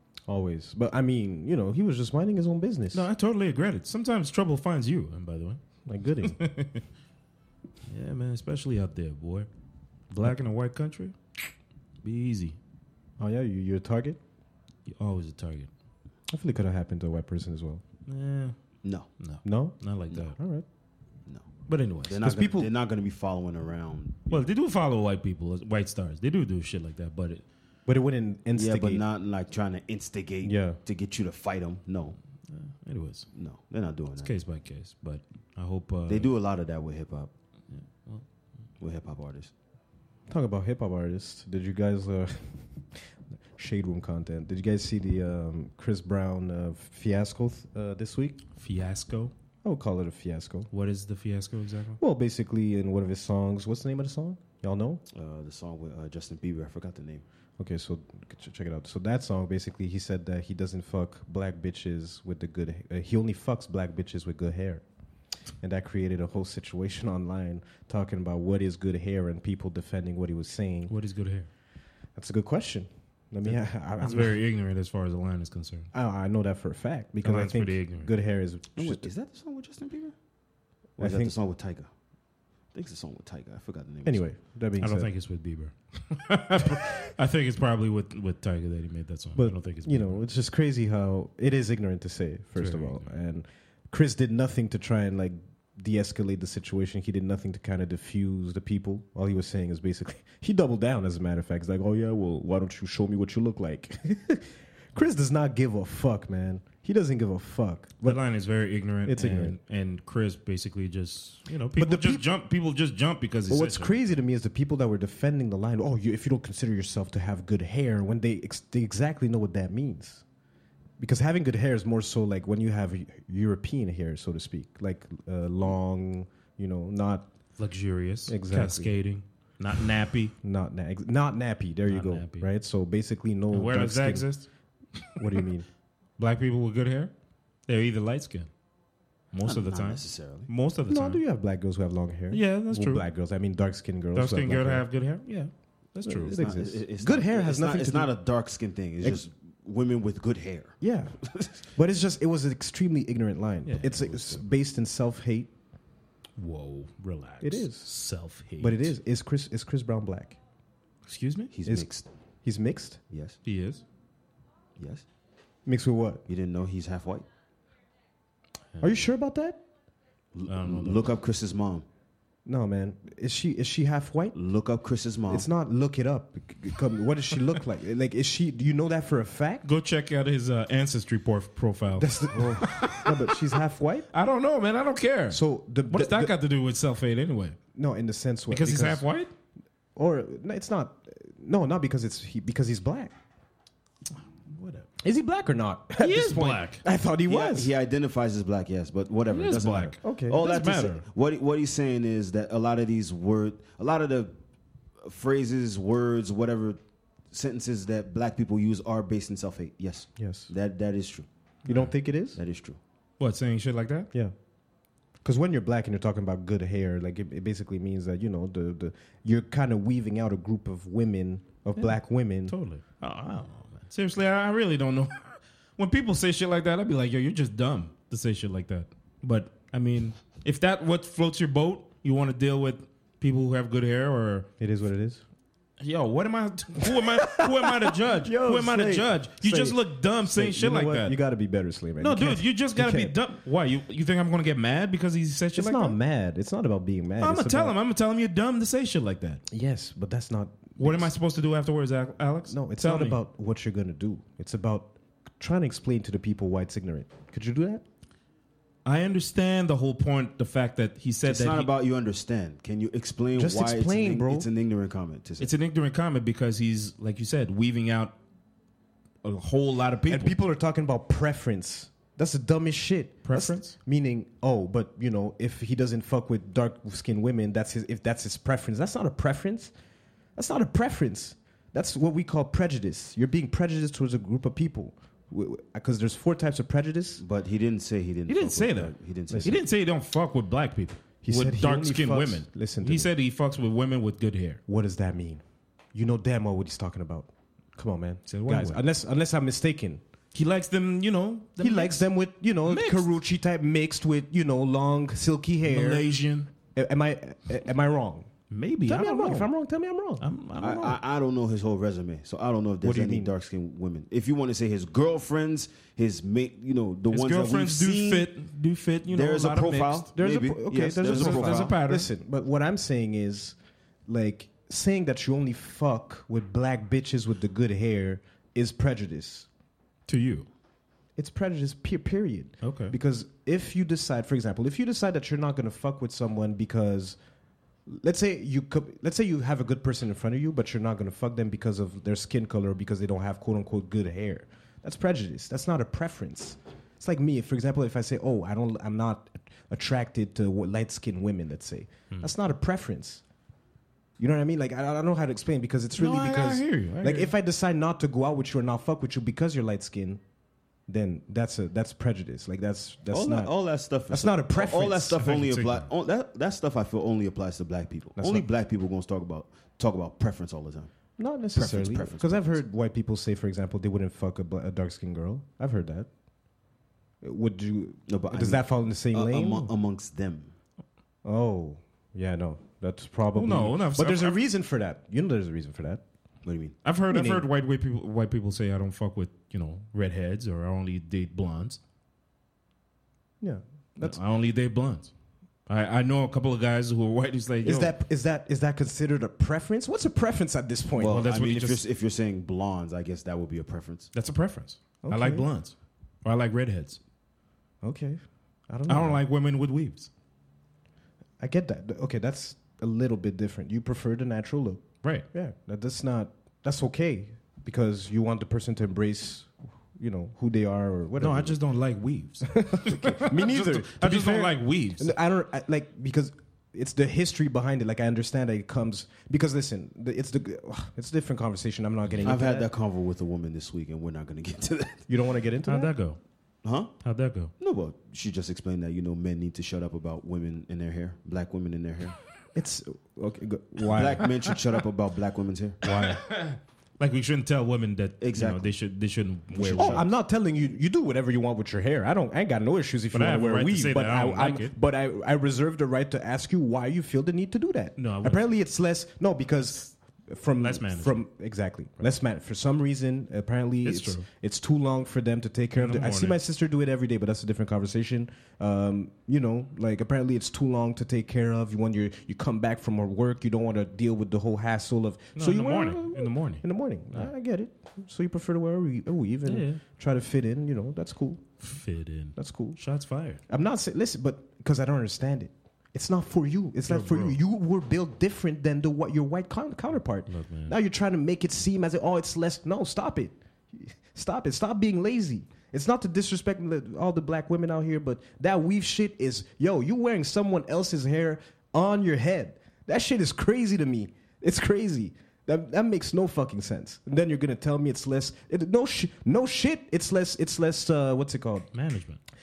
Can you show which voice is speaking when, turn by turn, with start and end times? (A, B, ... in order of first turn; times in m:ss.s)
0:00.3-0:03.1 A
0:02.9-0:05.6 B
0:05.8-0:06.4 A
0:06.2-0:06.8 B
0:07.9-0:09.5 B
0:10.1-0:11.1 B
0:12.0-0:12.6 B
0:13.2-0:14.2 A
0:14.9-0:15.7 B
0:16.3-0:17.8 A
0:18.1-0:18.5 B
0:18.8-0:19.1 C
0:19.2-0:20.4 B
0:19.4-0:20.6 A
0:21.7-0:22.3 B
0:22.0-0:24.5 C
0:22.2-0:22.7 A
0:24.3-0:27.4 B
0:27.8-0:29.0 A
0:28.5-0:32.2 C
0:30.4-0:30.8 A
0:32.5-0:33.3 B
0:33.3-0:34.3 C
0:34.2-0:36.3 B
0:36.1-0:37.3 C
0:37.7-0:38.2 B
0:38.8-0:39.5 C
0:40.3-0:43.0 A
0:43.6-0:48.4 A
0:48.6-0:49.3 B
0:49.6-0:50.7 A
0:50.7-0:52.0 B
0:52.0-0:55.0 A
0:55.1-0:57.2 C
0:57.6-1:04.8 A
1:05.6-1:10.9 A
1:10.9-1:11.5 B
1:12.1-1:14.4 A
1:13.4-1:15.9 B
1:15.9-1:19.1 A
1:17.2-1:18.1 B
1:18.8-1:20.2 C
1:21.0-1:21.3 A
1:21.0-1:21.9 C
1:22.7-1:24.3 C
1:24.0-1:25.1 A
1:24.8-1:30.2 B
1:29.3-1:48.2 A
1:32.6-1:33.1 B
1:48.0-1:54.0 B
1:49.0-1:49.6 A
1:51.8-1:52.2 A
1:53.5-2:00.2 A
2:01.0-2:07.2 A
2:07.6-2:10.3 B
2:08.3-2:08.9 A
2:10.4-2:14.3 A
2:11.9-2:12.5 B
2:13.5-2:14.5 B
2:15.0-2:15.4 B
2:15.2-2:15.7 A
2:16.2-2:17.1 B
2:17.7-2:18.5 B
2:19.3-2:21.2 B
2:19.4-2:20.5 C
2:20.9-2:24.8 A
2:22.3-2:23.0 B
2:24.1-2:26.4 B
2:26.0-2:28.1 A
2:26.2-2:31.6 C
2:30.8-2:35.5 A
2:33.6-2:34.3 B
2:36.4-2:38.9 B
2:37.4-2:37.9 A
2:38.6-2:40.4 A
2:41.0-2:41.5 B
2:41.5-2:42.1 C
2:42.4-2:43.0 A
2:43.1-2:43.4 C
2:43.4-2:43.8 B
2:44.8-2:45.0 C
2:45.6-2:46.2 A
2:46.3-2:47.2 C
2:48.7-2:49.0 B
2:48.8-2:49.6 A
2:50.3-2:51.8 C
2:50.5-2:51.1 B
2:52.4-2:54.3 A
2:54.3-2:55.4 C
2:55.3-2:59.6 A
2:59.6-3:03.4 B
3:01.9-3:04.1 A
3:04.1-3:07.6 B
3:05.3-3:06.3 A
3:07.7-3:09.0 A
3:08.5-3:09.3 B
3:10.0-3:13.1 A
3:14.4-3:14.9 B
3:15.0-3:17.7 A
3:16.0-3:16.8 B
3:17.3-3:24.3 C
3:19.3-3:21.0 B
3:20.0-3:20.4 A
3:25.0-3:26.8 C
3:27.3-3:31.3 C
3:30.2-3:30.5 A
3:31.6-3:31.9 B
3:31.6-3:32.4 A
3:32.4-3:32.8 C
3:33.2-3:34.1 B
3:35.2-3:42.5 A
3:41.8-3:54.5 B
3:54.6-3:55.2 A
3:55.8-4:01.2 B
3:56.8-4:03.1 A
4:02.0-4:06.0 B
4:05.5-4:07.8 A
4:07.2-4:09.4 B
4:09.5-4:11.1 A
4:10.8-4:13.2 B
4:12.5-4:17.8 A
4:18.8-4:21.7 B
4:21.2-4:25.5 C
4:23.3-4:24.5 A
4:25.4-4:28.1 B
4:29.2-4:30.3 B
4:30.1-4:39.7 A
4:33.2-4:33.7 B
4:40.4-4:47.2 A
4:47.2-4:49.6 C
4:48.3-4:54.6 B
4:49.3-4:49.6 A
4:51.2-4:53.1 A
4:54.7-4:55.4 A
4:55.9-5:00.0 A
4:58.3-4:58.8 B
5:00.3-5:02.1 B
5:01.6-5:06.0 A
5:02.6-5:03.1 B
5:05.6-5:06.5 B
5:06.7-5:08.3 A
5:08.5-5:09.5 B
5:08.8-5:10.2 A
5:10.2-5:11.0 B
5:10.6-5:18.3 C
5:12.8-5:13.3 A
5:17.1-5:20.1 B
5:19.1-5:21.8 C
5:20.2-5:29.5 A
5:21.0-5:22.1 B
5:30.1-5:30.5 B
5:31.2-5:37.2 A
5:32.6-5:32.9 B
5:37.8-5:53.2 A
5:54.2-6:00.2 A
5:56.0-5:57.3 B
6:00.9-6:03.5 A
6:03.1-6:10.9 C
6:04.1-6:05.2 A
6:05.2-6:05.9 B
6:08.2-6:08.4 A
6:11.2-6:16.1 A
6:11.5-6:12.6 C
6:17.2-6:19.7 A
6:18.1-6:20.5 C
6:21.2-6:26.0 A
6:23.3-6:24.4 B
6:26.4-6:26.8 C
6:26.8-6:31.8 B
6:27.1-6:27.5 A
6:33.4-6:34.2 A
6:34.0-6:35.1 B
6:35.7-6:37.9 B
6:37.6-6:41.3 A
6:41.0-6:44.1 C
6:41.0-6:41.8 B
6:44.1-6:47.0 B
6:45.0-6:45.5 A
6:47.8-6:49.2 A
6:48.9-6:50.1 B
6:51.4-7:01.6 A
7:01.2-7:05.2 B
7:02.4-7:12.7 A
7:12.0-7:12.4 B
7:12.2-7:15.0 C
7:15.1-7:15.9 A
7:15.6-7:16.2 B
7:16.6-7:16.9 C
7:17.0-7:17.5 B
7:17.6-7:22.2 C
7:22.5-7:24.4 A
7:23.9-7:25.8 C
7:25.8-7:26.2 A
7:25.8-7:30.0 B
7:28.2-7:28.7 C
7:29.5-7:30.0 C
7:29.8-8:01.6 A
7:33.1-7:34.7 B
7:38.0-7:38.5 B
7:40.6-7:41.2 B
7:43.8-7:44.2 B
7:45.8-7:46.4 B
7:55.4-7:57.3 B
7:59.4-7:59.8 B
8:01.6-8:03.4 B
8:02.4-8:02.8 A
8:03.5-8:31.7 A
8:06.9-8:07.4 B
8:10.3-8:10.8 B
8:31.7-8:32.2 B